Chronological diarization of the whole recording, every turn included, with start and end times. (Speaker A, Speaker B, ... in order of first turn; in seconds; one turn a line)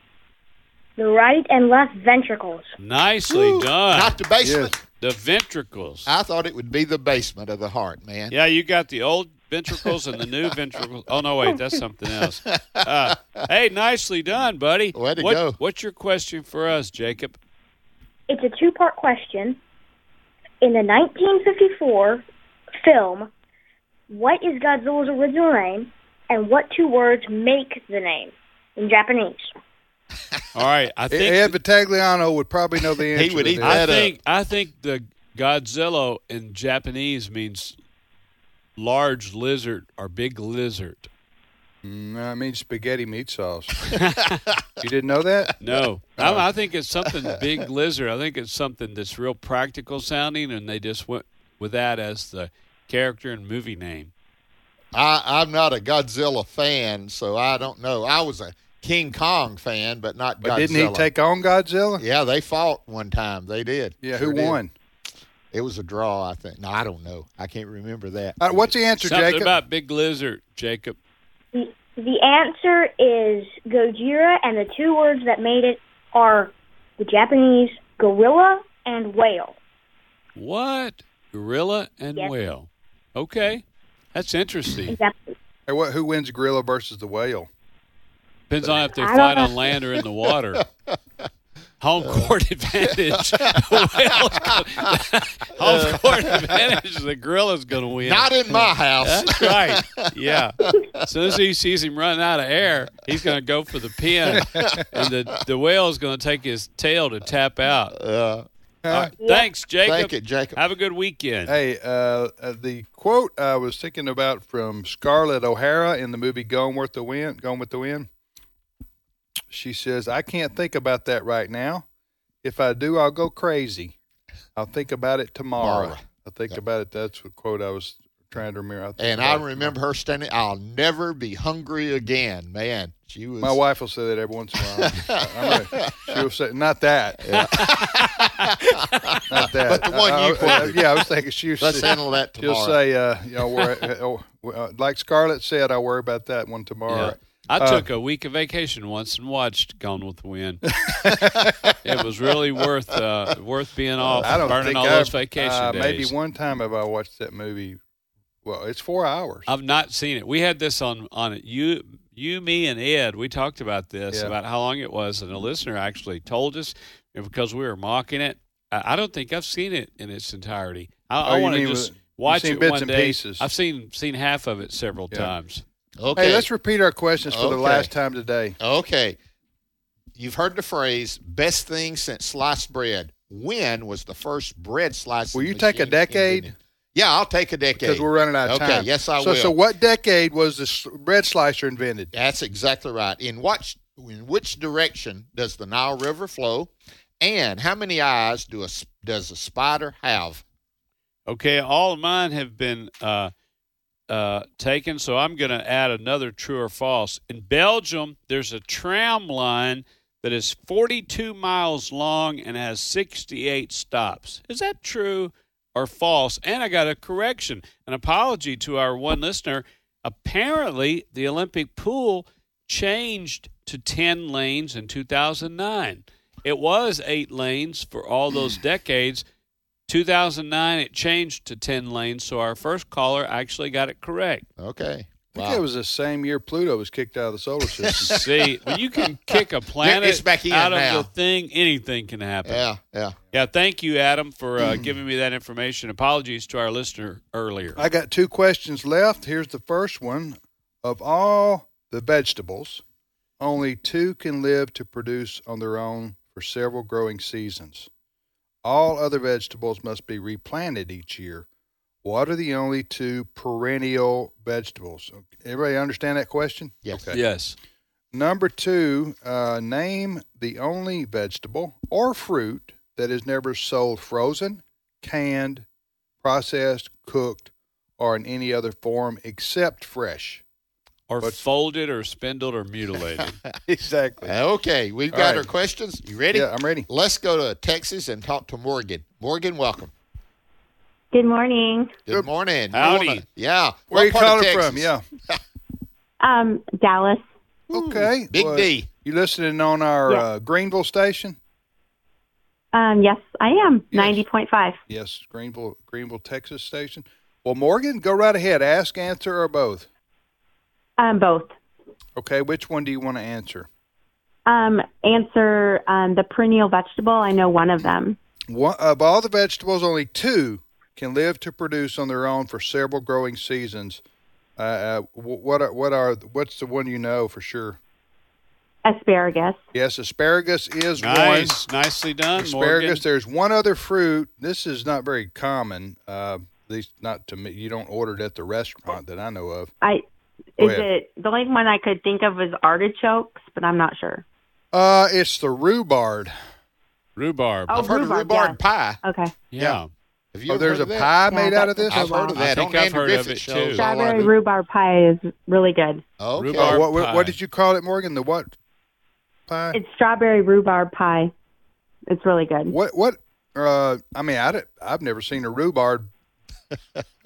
Speaker A: 1.0-2.7
Speaker B: 2.8-4.2
Speaker C: 3.3-4.8
Speaker D: 4.4-4.8
Speaker B: 5.0-6.1
Speaker C: 6.1-8.3
Speaker B: 8.3-17.4
Speaker C: 12.2-13.4
Speaker C: 14.9-15.6
Speaker A: 18.3-19.6
Speaker A: 20.6-22.2
Speaker A: 22.8-23.3
Speaker A: 24.1-29.5
Speaker B: 30.5-31.6
Speaker D: 31.1-33.9
Speaker C: 33.1-34.1
Speaker B: 33.6-37.8
Speaker B: 38.8-41.1
Speaker D: 41.8-43.9
Speaker B: 44.0-44.4
Speaker D: 44.8-45.5
Speaker B: 45.6-54.1
Speaker C: 54.9-61.1
Speaker D: 60.4-62.0
Speaker C: 62.0-64.6
Speaker D: 64.0-64.7
Speaker C: 65.5-68.7
Speaker D: 68.4-69.5
Speaker B: 69.0-71.0
Speaker A: 71.5-79.6
Speaker B: 80.4-85.0
Speaker A: 84.9-85.3
Speaker D: 85.7-87.5
Speaker B: 88.5-90.7
Speaker A: 89.0-89.6
Speaker B: 91.8-108.0
Speaker C: 92.0-92.3
Speaker C: 93.2-95.0
Speaker C: 95.6-96.3
Speaker C: 98.0-100.1
Speaker C: 104.3-104.8
Speaker D: 104.4-104.8
Speaker C: 107.9-108.5
Speaker D: 108.8-109.1
Speaker B: 108.9-111.5
Speaker C: 109.8-110.6
Speaker D: 111.5-118.1
Speaker D: 119.5-121.8
Speaker D: 122.4-123.9
Speaker D: 124.6-129.7
Speaker C: 125.6-126.6
Speaker C: 129.0-133.6
Speaker D: 133.4-137.5
Speaker C: 134.8-136.2
Speaker C: 137.2-141.0
Speaker B: 137.5-137.8
Speaker D: 139.3-147.9
Speaker C: 141.6-142.8
Speaker B: 146.9-150.6
Speaker D: 150.7-151.7
Speaker B: 151.8-156.1
Speaker C: 154.1-154.5
Speaker D: 154.2-157.8
Speaker D: 158.4-159.5
Speaker B: 159.5-175.6
Speaker D: 171.2-173.5
Speaker C: 176.0-176.5
Speaker D: 176.2-178.6
Speaker C: 177.3-177.9
Speaker C: 178.6-179.2
Speaker C: 180.2-189.6
Speaker D: 185.3-186.5
Speaker D: 187.8-192.1
Speaker C: 192.1-200.4
Speaker B: 201.3-203.3
Speaker B: 204.1-229.2
Speaker B: 229.9-234.5
Speaker C: 234.6-235.6
Speaker D: 235.3-238.2
Speaker C: 237.8-238.2
Speaker B: 238.1-242.7
Speaker C: 239.3-241.1
Speaker C: 242.4-243.2
Speaker B: 243.3-247.8
Speaker D: 247.8-252.8
Speaker D: 253.4-257.9
Speaker D: 258.6-261.5
Speaker D: 262.0-267.2
Speaker B: 267.1-267.6
Speaker D: 268.1-275.6
Speaker D: 276.2-280.4
Speaker B: 281.1-283.4
Speaker D: 283.7-284.3
Speaker C: 284.2-289.9
Speaker D: 285.1-285.5
Speaker D: 286.3-286.9
Speaker E: 291.1-292.0
Speaker C: 292.1-295.4
Speaker B: 292.7-293.2
Speaker D: 293.9-295.0
Speaker E: 296.2-297.2
Speaker D: 297.7-301.4
Speaker C: 297.7-298.9
Speaker E: 302.7-304.8
Speaker D: 303.9-304.2
Speaker D: 304.9-309.9
Speaker E: 311.0-311.5
Speaker D: 312.2-313.7
Speaker E: 314.5-318.2
Speaker D: 318.5-324.0
Speaker D: 324.6-327.8
Speaker E: 328.9-329.6
Speaker D: 329.7-331.6
Speaker B: 331.0-333.0
Speaker D: 332.4-339.7
Speaker E: 340.6-344.2
Speaker D: 340.6-340.9
Speaker D: 344.7-346.4
Speaker B: 347.2-347.9
Speaker E: 347.7-349.3
Speaker C: 347.7-349.0
Speaker B: 349.5-349.9
Speaker C: 350.3-351.1
Speaker D: 350.5-352.3
Speaker E: 351.3-352.4
Speaker C: 351.9-354.3
Speaker B: 352.4-353.9
Speaker E: 353.8-356.0
Speaker C: 356.2-356.8
Speaker B: 356.4-357.4
Speaker D: 356.6-358.5
Speaker D: 359.5-359.8
Speaker E: 359.7-361.3
Speaker E: 362.1-362.8
Speaker D: 362.7-366.1